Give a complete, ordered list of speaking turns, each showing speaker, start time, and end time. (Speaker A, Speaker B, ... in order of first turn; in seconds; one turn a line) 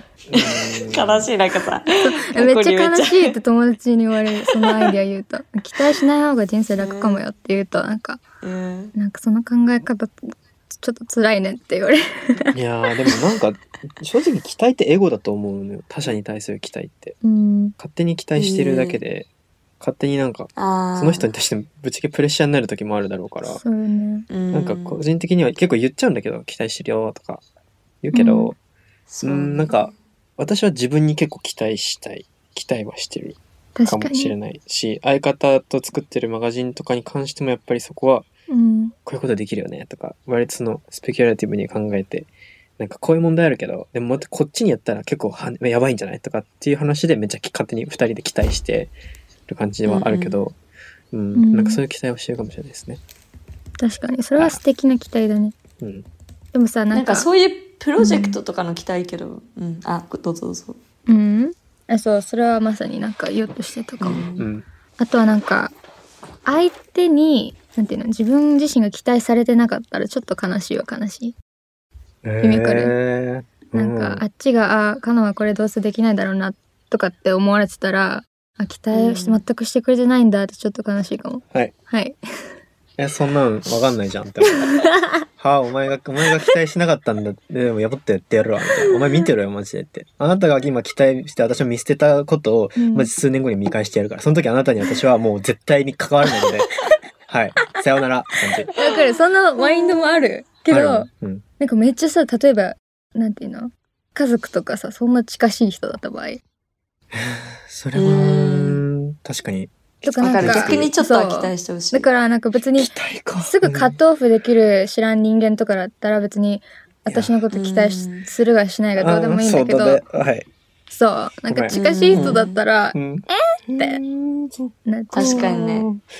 Speaker A: 0.3-1.3
Speaker B: 0.3-3.4
Speaker C: 1.9-8.2
Speaker B: 4.4-4.9
Speaker B: 6.7-7.2
Speaker B: 8.4-8.9
Speaker C: 8.9-12.5
Speaker A: 12.5-17.2
Speaker C: 17.2-17.7
Speaker A: 17.8-19.3
Speaker B: 18.4-19.0
Speaker A: 19.8-23.6
Speaker B: 20.6-21.3
Speaker C: 23.4-24.3
Speaker B: 24.3-25.0
Speaker A: 24.5-27.4
Speaker A: 28.0-28.6
Speaker C: 28.1-28.5
Speaker B: 29.1-29.9
Speaker A: 29.2-38.3
Speaker C: 33.7-34.3
Speaker C: 38.5-38.9
Speaker A: 39.0-48.9
Speaker A: 49.5-50.5
Speaker B: 49.9-50.4
Speaker A: 51.1-53.0
Speaker C: 51.3-51.8
Speaker C: 53.8-55.5
Speaker A: 55.8-56.0
Speaker C: 56.5-57.3
Speaker B: 56.9-60.8
Speaker C: 58.0-58.4
Speaker C: 61.1-64.2
Speaker B: 64.0-64.5
Speaker A: 64.4-64.7
Speaker C: 65.0-65.7
Speaker C: 66.5-71.3
Speaker A: 72.2-74.2
Speaker C: 72.4-72.9
Speaker C: 73.7-82.2
Speaker B: 78.9-79.4
Speaker A: 83.0-84.8
Speaker C: 84.6-85.1
Speaker A: 85.4-96.7
Speaker C: 92.8-93.1
Speaker A: 97.3-98.7
Speaker C: 98.7-101.1
Speaker A: 100.7-101.4
Speaker C: 101.6-106.4
Speaker A: 107.1-110.9
Speaker B: 107.9-108.8
Speaker C: 110.0-120.0
Speaker B: 110.2-112.1
Speaker A: 112.8-113.9
Speaker A: 117.0-117.3
Speaker B: 117.5-118.3
Speaker A: 119.0-120.5
Speaker C: 120.9-124.0
Speaker A: 121.5-122.4
Speaker B: 121.7-122.6
Speaker A: 122.9-125.9
Speaker C: 124.9-125.9
Speaker B: 125.1-125.9